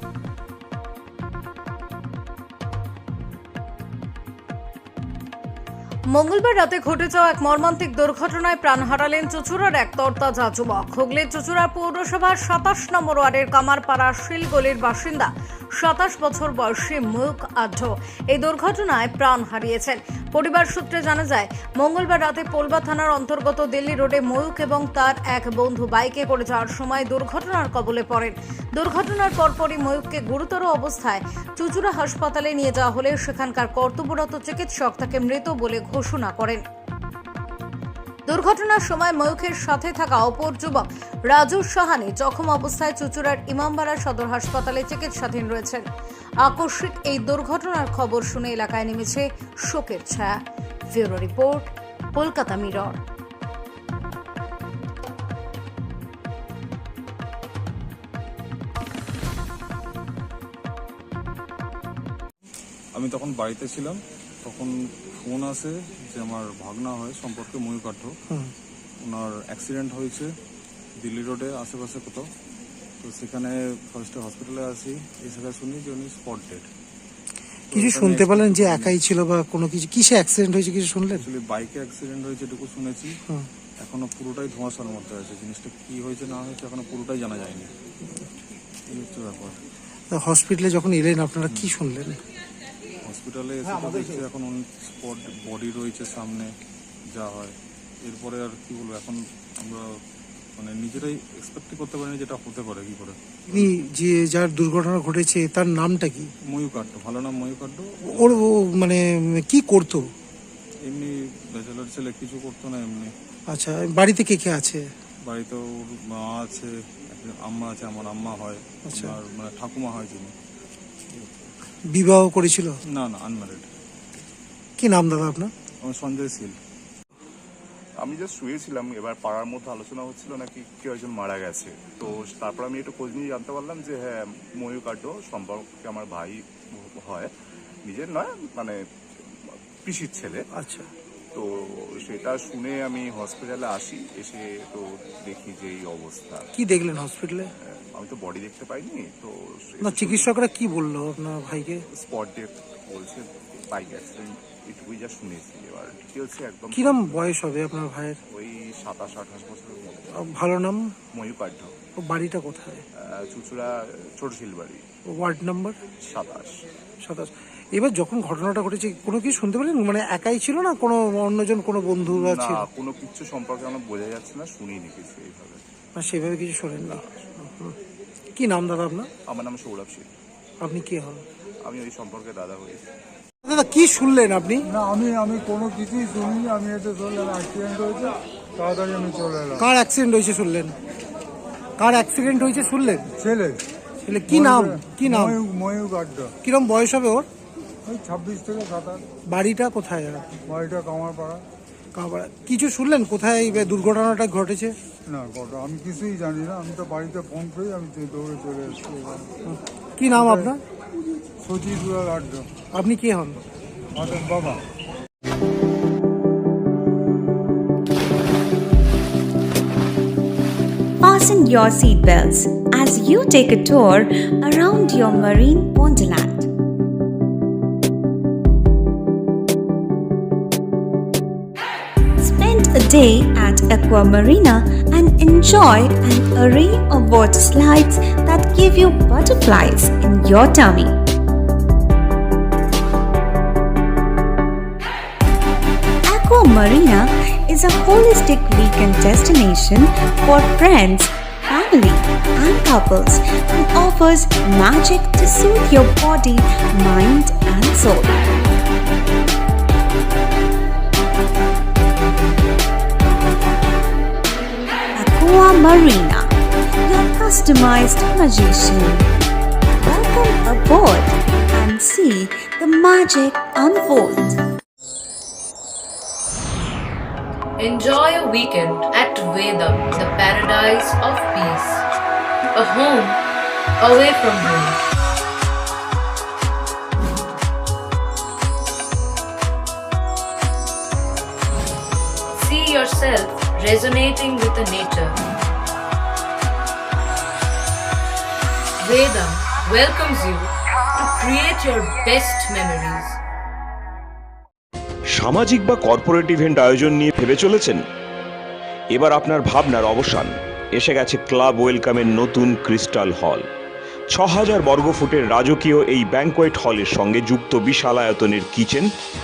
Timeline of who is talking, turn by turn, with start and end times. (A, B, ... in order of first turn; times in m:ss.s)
0:06.1-0:36.6 A
0:38.3-0:45.8 A
0:46.4-0:50.4 A
0:50.9-0:53.0 A
1:02.9-1:08.1 B
1:09.0-1:10.3 B
1:11.0-1:12.2 B
1:13.0-1:16.6 B
1:17.7-1:19.0 B
1:17.7-1:21.2 C
1:21.2-1:23.1 B
1:23.8-1:27.7 B
1:28.9-1:29.6 B
1:30.1-1:32.2 C
1:33.0-1:36.5 B
1:37.1-1:37.5 B
1:38.0-1:39.8 B
1:40.6-1:43.7 B
1:43.5-1:46.3 C
1:46.5-1:48.4 B
1:48.1-1:50.1 C
1:50.8-1:53.1 B
1:53.5-1:54.8 C
1:55.2-2:00.3 B
1:58.9-1:59.2 C
2:01.9-2:02.7 C
2:02.9-2:03.7 B
2:04.8-2:05.5 C
2:05.8-2:06.6 B
2:08.0-2:17.3 D
2:17.8-2:18.8 D
2:19.4-2:20.4 D
2:20.6-2:20.9 C
2:22.0-2:26.4 D
2:26.6-2:27.5 C
2:27.6-2:30.3 D
2:29.8-2:31.8 C
2:31.9-2:37.3 D
2:36.7-2:38.2 C
2:38.3-2:40.2 D
2:40.2-2:40.9 C
2:41.1-2:41.7 D
2:42.0-2:42.8 C
2:43.2-2:44.8 D
2:45.1-2:45.8 C
2:46.0-2:46.5 D
2:47.0-2:52.7 C
2:52.0-2:55.6 D
2:56.0-2:57.7 C
2:58.4-2:59.1 C
2:59.3-3:00.1 D
3:00.6-3:01.2 C
3:01.6-3:02.8 D
3:03.4-3:04.6 C
3:04.7-3:09.6 E
3:09.6-3:10.7 C
3:11.8-3:13.1 C
3:13.1-3:13.6 E
3:14.0-3:15.4 C
3:14.3-3:16.3 E
3:16.4-3:17.3 C
3:17.8-3:19.0 E
3:19.3-3:20.3 C
3:20.4-3:21.4 E
3:21.9-3:24.7 C
3:25.1-3:29.3 E
3:29.5-3:30.6 C
3:30.1-3:30.5 E
3:31.4-3:32.4 E
3:32.7-3:33.4 C
3:34.0-3:34.6 E
3:41.0-3:46.5 F
3:52.2-4:00.9 F
4:06.1-4:18.2 F
4:25.0-4:26.3 F
4:26.8-4:29.0 F
4:29.8-4:34.4 F
4:37.6-4:41.8 G
4:42.5-4:43.2 G
4:43.8-4:44.8 G
4:52.3-4:55.2 G
4:58.8-5:03.2 G
5:05.1-5:07.8 H
5:08.9-5:13.4 H
5:14.1-5:18.9 H